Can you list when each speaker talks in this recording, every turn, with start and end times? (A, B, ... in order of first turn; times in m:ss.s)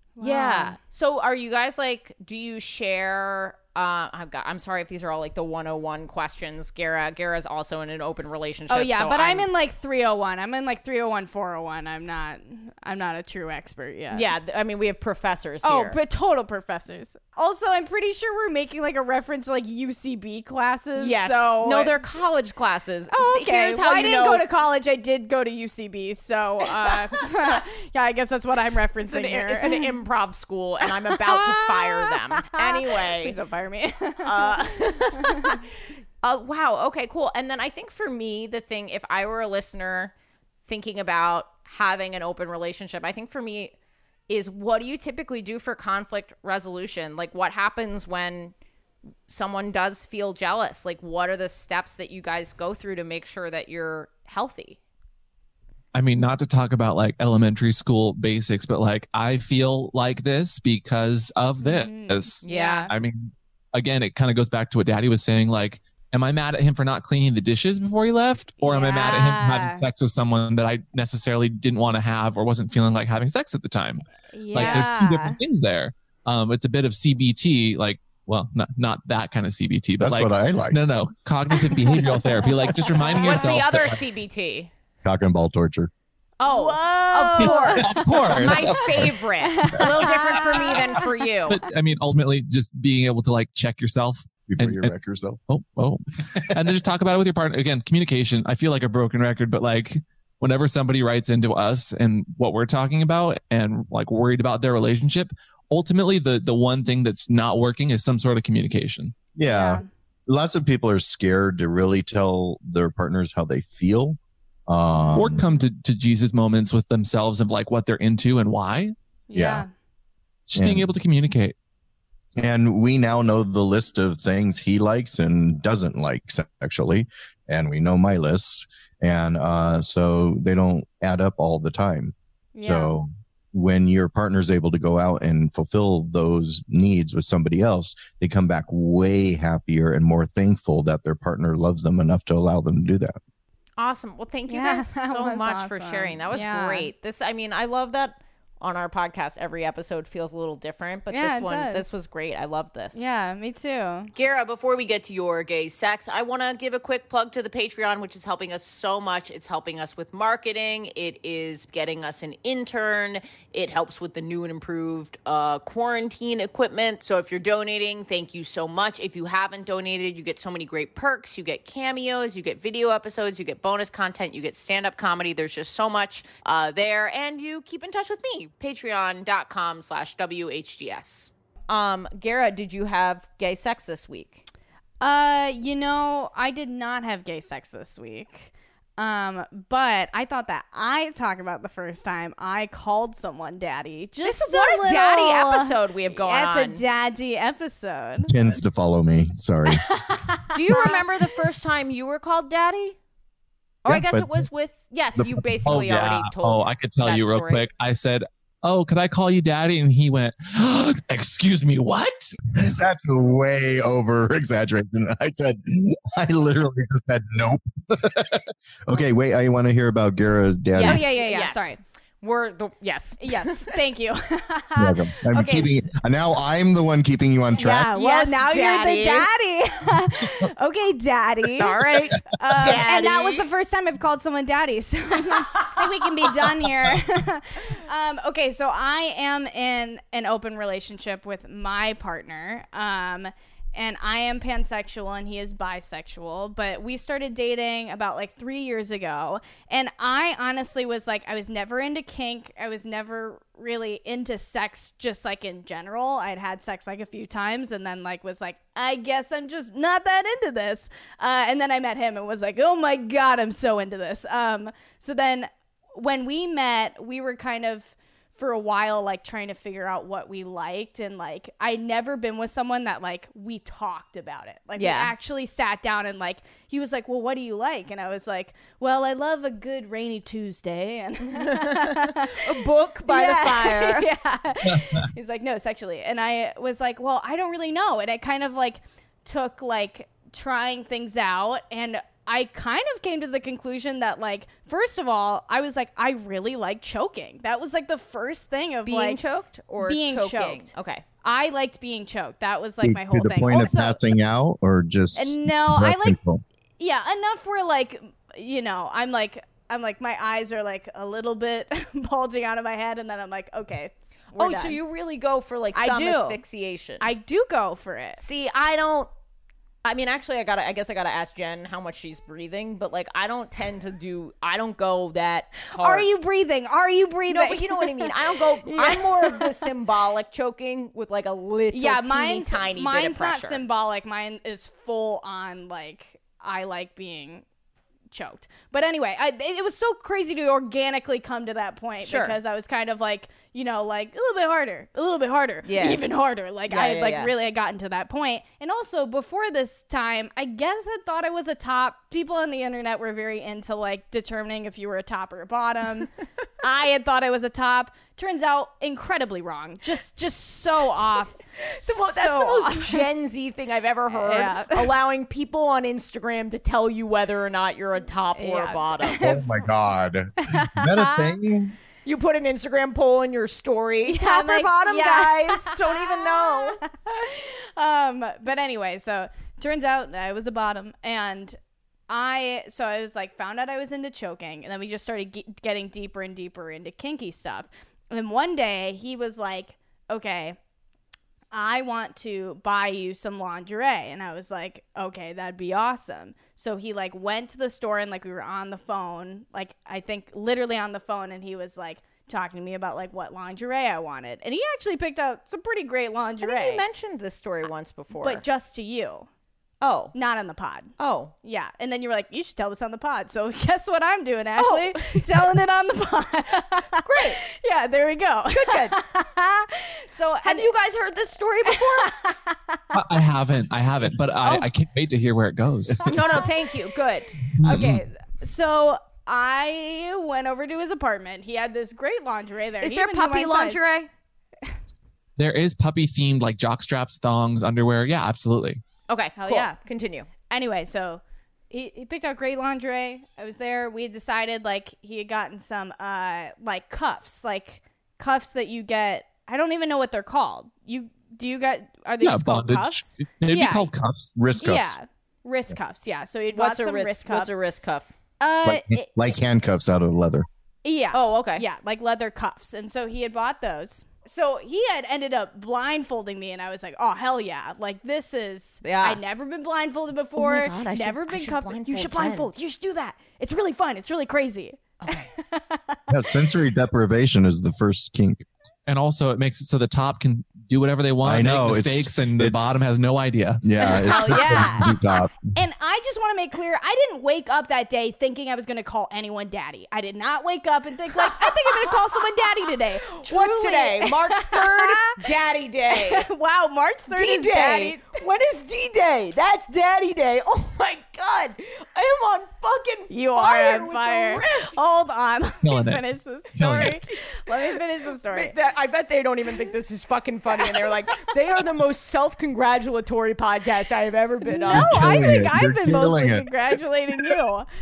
0:00.2-0:00.8 A
0:00.2-0:09.5 B
0:08.7-0:14.3 A
0:14.1-0:16.0 B
0:15.6-0:22.0 A
0:21.0-0:24.4 B
0:23.1-0:30.0 A
0:29.1-0:33.4 B
0:30.9-0:35.6 A
0:34.2-0:35.6 B
0:36.2-0:40.1 B
0:40.7-0:43.7 B
0:44.3-0:48.5 B
0:49.3-0:54.8 B
0:55.9-1:24.0 C
1:01.6-1:02.9 A
1:02.4-1:02.9 B
1:08.6-1:09.8 A
1:14.3-1:15.4 A
1:14.6-1:14.8 B
1:20.0-1:20.8 D
1:21.7-1:23.6 A
1:23.2-1:24.7 B
1:25.0-1:25.9 D
1:26.4-1:31.6 B
1:26.4-1:28.8 A
1:27.4-1:29.0 C
1:28.4-1:29.2 D
1:29.4-1:31.1 A
1:31.5-1:34.9 C
1:34.5-1:35.4 D
1:35.5-1:49.2 C
1:49.4-1:55.4 D
1:49.5-1:49.9 A
1:55.2-1:58.9 C
1:59.3-1:59.7 A
1:59.3-1:59.7 D
2:00.5-2:01.6 C
2:00.6-2:00.9 D
2:02.4-2:23.2 D
2:12.6-2:13.0 A
2:23.8-2:33.1 B
2:24.5-2:26.9 A
2:31.1-2:32.0 A
2:32.9-2:34.1 A
2:34.2-3:04.4 B
3:05.0-3:18.3 A
3:14.2-3:16.8 B
3:18.2-3:19.9 D
3:19.7-3:21.1 A
3:20.5-3:23.0 B
3:23.8-3:27.6 B
3:23.9-3:24.5 D
3:25.7-3:32.4 C
3:32.5-3:41.0 D
3:40.8-3:43.7 B
3:40.8-3:41.8 A
3:43.2-3:45.2 A
3:44.8-3:47.9 D
3:45.3-3:45.9 B
3:47.6-4:59.2 A
3:47.9-3:49.3 B
3:51.6-3:53.5 B
4:34.8-4:35.1 B
4:41.2-4:44.1 B
4:44.6-4:45.1 C
4:58.8-5:01.0 B
4:59.8-5:00.7 A
5:01.2-5:04.0 A
5:02.8-5:06.4 D
5:05.2-5:06.2 A
5:06.8-5:14.8 A
5:14.4-5:17.1 B
5:15.7-5:16.4 A
5:17.0-5:18.2 A
5:18.2-5:19.1 B
5:19.8-5:26.1 B
5:25.8-5:28.1 A
5:27.3-5:33.6 B
5:28.6-5:29.5 A
5:31.7-5:37.4 A
5:38.1-6:03.1 A
5:42.0-5:42.4 B
5:45.6-5:46.0 B
5:46.7-5:47.3 B
6:01.8-6:09.4 B
6:04.1-6:04.9 A
6:08.4-6:09.6 A
6:09.2-6:11.8 D
6:10.4-6:11.3 A
6:12.0-6:16.8 B
6:14.0-6:21.6 A
6:22.1-6:30.6 A
6:31.5-6:46.8 A
6:46.4-6:48.4 B
6:48.2-6:49.3 A
6:49.8-6:50.1 B
6:50.1-7:00.7 A
6:51.0-6:51.3 B
6:54.6-6:55.2 B
6:57.0-6:57.4 B
6:58.5-6:59.0 B
7:00.4-7:02.2 B
7:01.7-7:03.0 A
7:02.9-7:06.1 C
7:04.4-7:04.7 B
7:06.0-7:06.5 A
7:06.1-7:07.4 B
7:07.6-7:08.0 C
7:07.6-7:13.8 A
7:12.8-7:14.1 B
7:15.4-7:18.8 C
7:19.1-7:20.3 B
7:19.4-7:19.8 A
7:20.5-7:33.9 A
7:32.2-7:34.5 C
7:34.4-7:35.0 D
7:34.6-7:37.5 A
7:36.5-7:38.1 B
7:38.4-7:39.1 A
7:38.6-7:40.5 D
7:40.8-7:56.2 A
7:41.1-7:41.6 B
7:48.8-7:49.2 B
7:50.4-7:52.5 B
7:55.0-7:55.3 B
7:56.1-7:58.4 D
7:58.9-8:03.6 C
8:01.2-8:02.8 D
8:03.6-8:05.3 D
8:03.8-8:15.2 A
8:11.2-8:12.0 B
8:13.1-8:16.3 B
8:15.9-8:18.1 A
8:17.1-8:24.8 B
8:23.1-8:28.5 A
8:25.6-8:26.0 C
8:26.6-8:27.0 C
8:28.3-8:35.0 B
8:30.7-8:31.2 A
8:34.5-8:37.7 A
8:34.7-8:37.4 D